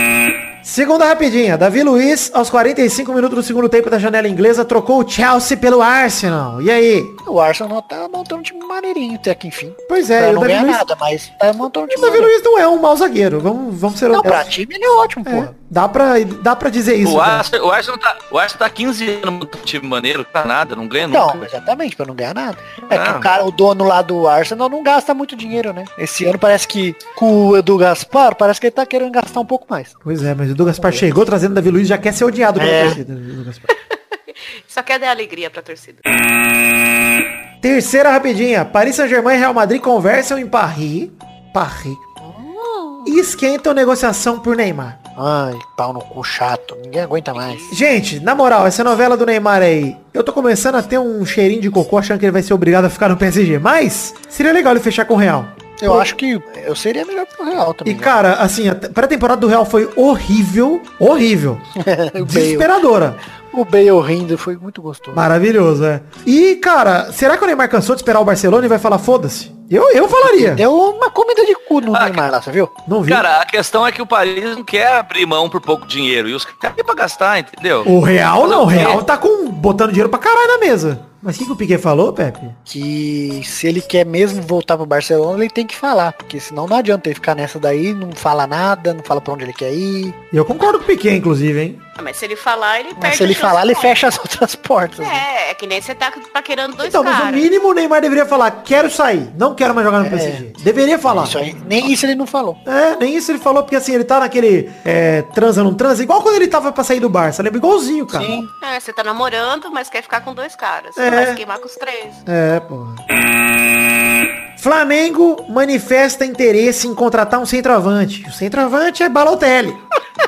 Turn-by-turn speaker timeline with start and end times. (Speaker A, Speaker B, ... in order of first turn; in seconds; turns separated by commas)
Speaker A: 0.6-7.2, Speaker B: 7.2-12.3, Speaker A: 9.9-10.9, Speaker A: 11.9-14.5, Speaker B: 14.1-15.5, Speaker A: 15.2-17.5, Speaker C: 17.0-21.5, Speaker B: 21.1-29.9, Speaker C: 22.9-23.3, Speaker A: 30.0-33.7, Speaker B: 30.8-31.1, Speaker B: 32.6-33.0, Speaker D: 33.9-36.0, Speaker A: 37.6-42.0, Speaker B: 42.2-43.1, Speaker A: 43.0-45.0, Speaker B: 45.2-47.7, Speaker D: 47.3-47.8, Speaker A: 47.7-56.1, Speaker B: 55.8-58.1, Speaker A: 57.8-61.6, Speaker B: 61.8-62.7, Speaker A: 62.2-63.2, Speaker B: 63.5-65.2, Speaker A: 65.1-70.6, Speaker B: 70.2-72.7, Speaker C: 71.9-72.2, Speaker A: 72.8-73.2, Speaker C: 73.1-79.0, Speaker A: 77.8-82.6, Speaker B: 82.7-90.2, Speaker A: 90.3-91.8, Speaker D: 92.0-94.2, Speaker B: 93.0-95.2, Speaker D: 95.0-97.5, Speaker A: 96.8-101.4, Speaker B: 100.0-100.4, Speaker B: 101.0-102.6, Speaker A: 102.6-108.3, Speaker B: 108.1-108.5, Speaker D: 108.6-112.2, Speaker A: 111.0-111.4, Speaker A: 112.2-113.0, Speaker A: 114.6-119.8